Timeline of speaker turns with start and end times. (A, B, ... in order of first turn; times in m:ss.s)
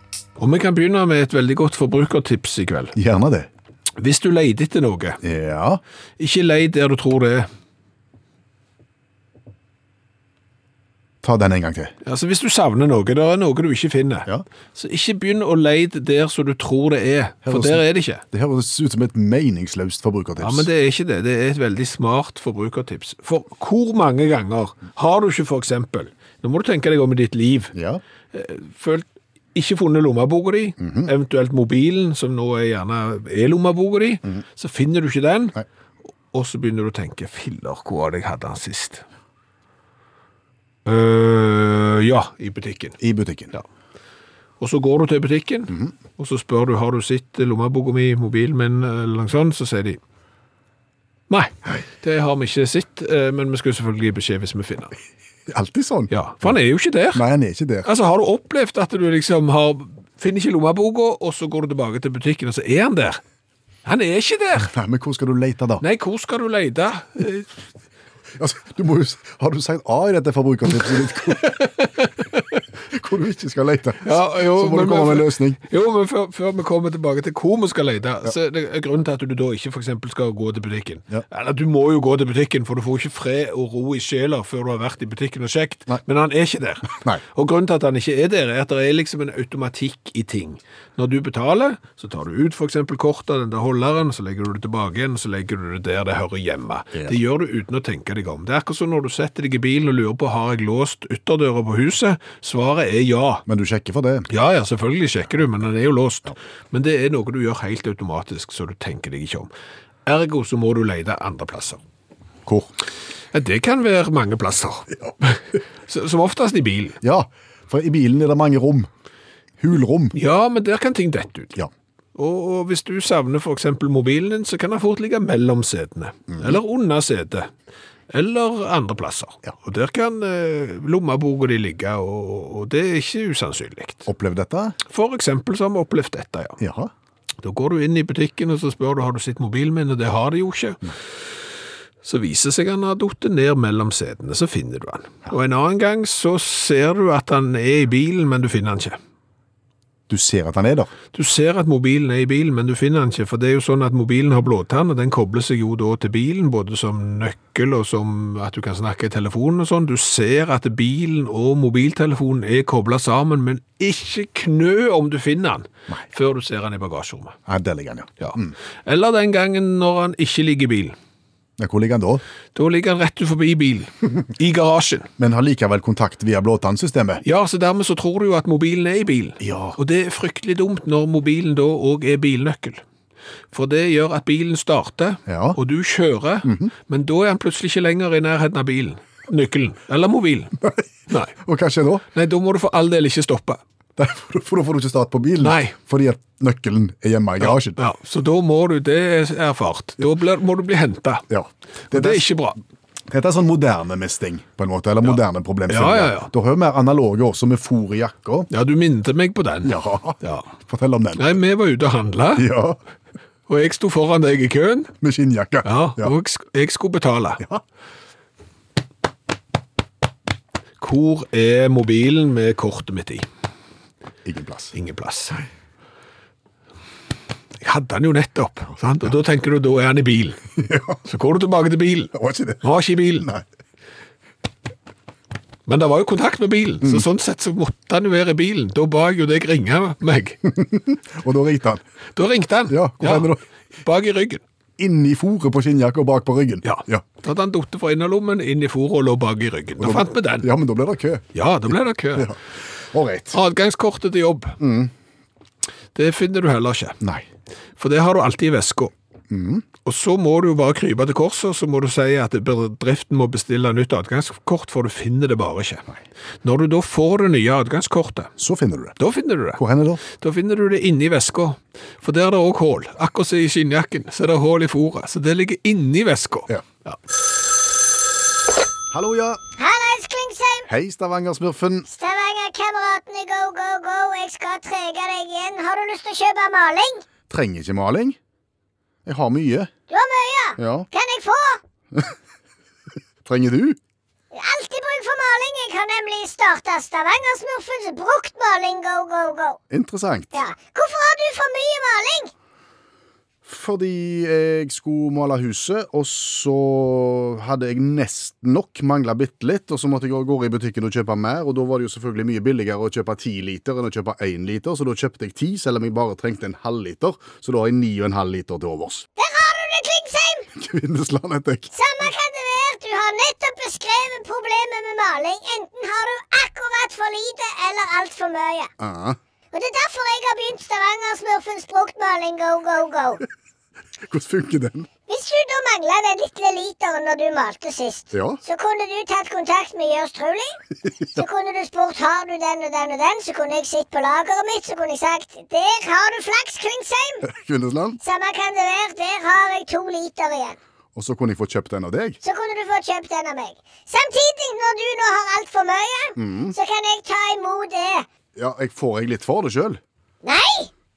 0:00.4-0:03.0 A
0:03.0-0:03.5 B
0:04.0-0:05.2 A
0:05.2-0:05.8 B
0:06.2-0:07.5 A
0:11.2-0:11.9 B
0:12.0-0:18.2 A
0:17.4-0:20.7 B
0:20.4-0:27.7 A
0:27.7-0:28.0 B
0:28.3-0:35.6 A
0:30.8-0:31.1 B
0:36.3-0:39.0 A
0:40.8-0:43.0 A
0:43.0-0:43.5 B
0:44.6-0:50.0 A
0:51.3-0:55.0 A
0:55.5-0:56.6 B
0:56.1-0:57.2 A
0:57.1-0:57.9 B
0:57.8-1:03.2 A
1:03.8-1:04.7 A
1:04.6-1:05.8 B
1:05.8-1:07.5 A
1:08.4-1:11.6 B
1:11.4-1:12.6 A
1:12.9-1:15.6 B
1:14.0-1:43.4 A
1:26.9-1:27.2 B
1:43.5-1:44.3 B
1:44.3-1:49.5 A
1:50.1-1:51.8 A
1:52.5-1:52.7 B
1:53.3-1:57.0 A
1:57.0-1:58.9 B
1:59.6-2:00.2 B
2:00.1-2:01.6 A
2:02.2-2:07.5 A
2:06.3-2:06.6 B
2:08.1-2:14.1 A
2:14.1-2:14.8 B
2:14.9-2:16.6 A
2:16.6-2:16.9 B
2:17.4-2:21.0 A
2:22.0-2:29.0 A
2:30.1-2:30.9 B
2:31.1-2:47.4 A
2:47.5-2:48.6 B
2:48.2-2:51.0 A
2:51.6-2:52.2 B
2:52.6-2:55.1 A
2:55.2-2:57.2 B
2:57.2-3:02.8 A
2:59.4-2:59.8 B
3:03.5-3:10.6 A
3:05.3-3:05.6 B
3:06.4-3:06.7 B
3:10.6-3:12.0 B
3:11.1-3:11.4 A
3:12.1-3:13.6 A
3:14.0-3:17.8 B
3:15.4-3:15.8 A
3:17.4-3:21.2 A
3:21.3-3:22.3 B
3:21.9-3:22.6 A
3:23.1-3:28.5 B
3:25.0-3:26.3 A
3:28.5-3:30.5 A
3:29.6-3:31.4 B
3:31.2-3:32.5 A
3:32.4-3:32.8 B
3:33.5-3:34.9 A
3:35.0-3:36.2 B
3:35.6-3:37.4 A
3:40.8-3:43.3 A
3:44.2-3:44.7 B
3:44.7-3:45.4 A
3:47.6-3:50.4 A
3:50.6-3:51.0 B
3:51.0-3:53.3 A
3:52.1-3:53.4 B
3:55.7-4:00.4 A
4:00.4-4:01.8 B
4:02.2-4:04.4 A
4:02.7-4:03.4 B
4:04.8-4:07.0 B
4:06.6-4:10.5 A
4:09.8-4:11.3 B
4:11.3-4:12.3 A
4:12.9-4:13.4 B
4:13.3-4:14.6 A
4:14.6-4:14.9 B
4:16.0-4:17.0 A
4:17.0-4:17.3 B
4:17.8-4:18.9 A
4:19.3-4:19.6 B
4:19.8-4:25.9 A
4:26.4-4:28.3 A
4:28.4-4:29.0 B
4:29.0-4:37.0 A
4:29.6-4:30.0 B
4:38.9-4:39.4 B
4:39.6-4:40.7 C
4:40.7-4:41.9 B
4:41.9-4:47.1 C
4:47.3-4:48.2 B
4:49.0-4:49.7 B
4:49.9-4:51.6 C
4:50.6-4:50.9 B
4:53.2-4:53.8 B
4:54.3-4:59.6 C
4:59.7-5:00.3 B
5:00.3-5:02.3 C
5:03.5-5:19.0 B
5:19.2-5:20.5 C
5:20.6-5:21.7 B
5:21.7-5:28.7 C
5:28.8-5:29.2 B
5:29.5-5:33.2 C
5:34.0-5:34.9 B
5:35.1-5:40.6 C
5:38.1-5:38.4 B
5:40.8-5:41.2 B
5:41.2-5:47.3 C
5:47.2-5:48.0 B
5:48.0-5:50.6 C
5:51.0-5:52.2 B
5:52.2-5:58.1 C
5:56.2-5:56.6 B
5:58.4-5:59.8 B
6:00.2-6:00.7 C